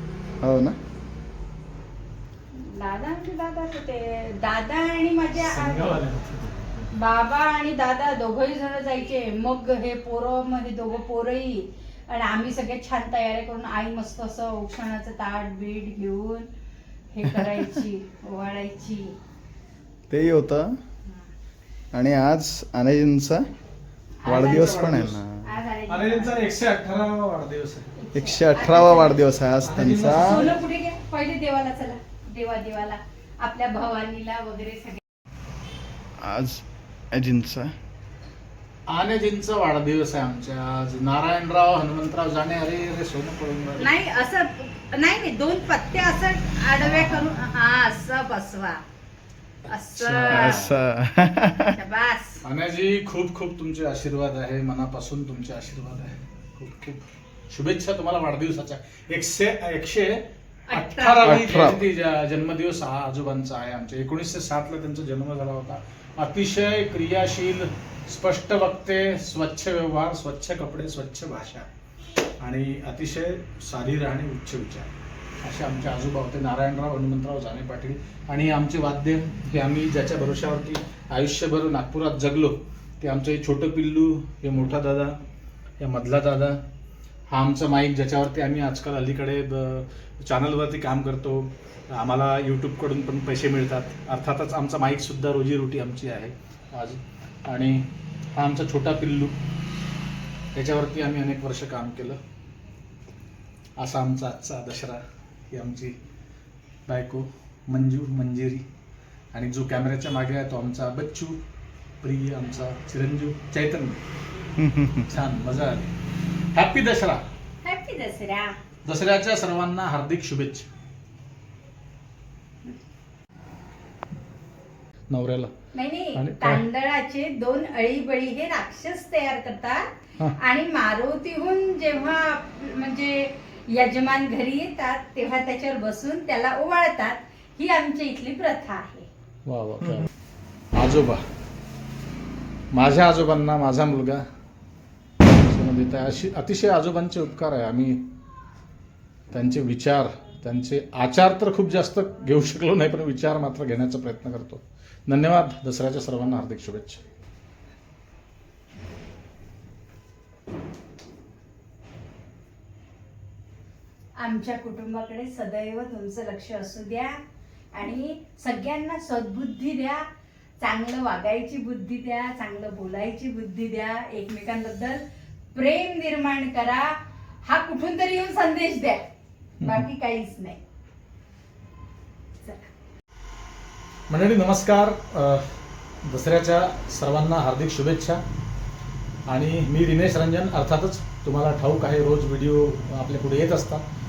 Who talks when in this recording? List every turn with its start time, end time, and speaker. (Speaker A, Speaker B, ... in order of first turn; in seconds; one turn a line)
Speaker A: 0.4-0.8
Speaker B: 2.5-6.0
Speaker C: 5.4-6.9
Speaker B: 6.9-16.5
Speaker B: 17.1-19.1
Speaker A: 20.1-20.7
Speaker A: 21.9-23.5
Speaker B: 24.2-24.8
Speaker A: 24.2-25.4
Speaker C: 24.2-25.2
Speaker B: 25.4-26.4
Speaker C: 25.9-27.9
Speaker B: 27.9-29.2
Speaker A: 28.1-30.5
Speaker C: 29.6-30.5
Speaker B: 30.1-35.0
Speaker A: 36.2-37.7
Speaker C: 38.9-43.9
Speaker B: 43.8-48.8
Speaker C: 46.8-47.3
Speaker B: 49.7-50.7
Speaker C: 50.0-50.7
Speaker A: 50.3-51.7
Speaker B: 51.7-52.4
Speaker C: 52.4-71.7
Speaker B: 60.7-61.4
Speaker A: 61.2-61.8
Speaker C: 72.4-74.9
Speaker C: 75.4-85.2
Speaker C: 85.8-86.6
Speaker C: 87.3-99.3
Speaker C: 100.5-102.2
Speaker C: 103.8-105.0
Speaker C: 105.5-106.0
Speaker C: 106.9-108.6
Speaker C: 109.3-111.4
Speaker C: 112.0-114.0
Speaker A: 114.6-115.1
Speaker C: 115.1-115.9
Speaker C: 116.5-117.2
Speaker B: 117.6-118.6
Speaker C: 118.8-120.7
Speaker C: 125.1-125.5
Speaker B: 125.7-139.1
Speaker C: 126.2-126.6
Speaker C: 139.4-140.1
Speaker C: 140.7-141.2
Speaker C: 142.7-144.2
Speaker C: 145.2-148.1
Speaker C: 149.3-157.0
Speaker B: 164.2-167.2
Speaker B: 167.7-170.0
Speaker B: 170.6-175.0
Speaker B: 175.5-179.0
Speaker B: 179.6-180.6
Speaker B: 182.4-182.7
Speaker C: 184.1-185.4
Speaker C: 186.0-188.2
Speaker C: 189.3-193.8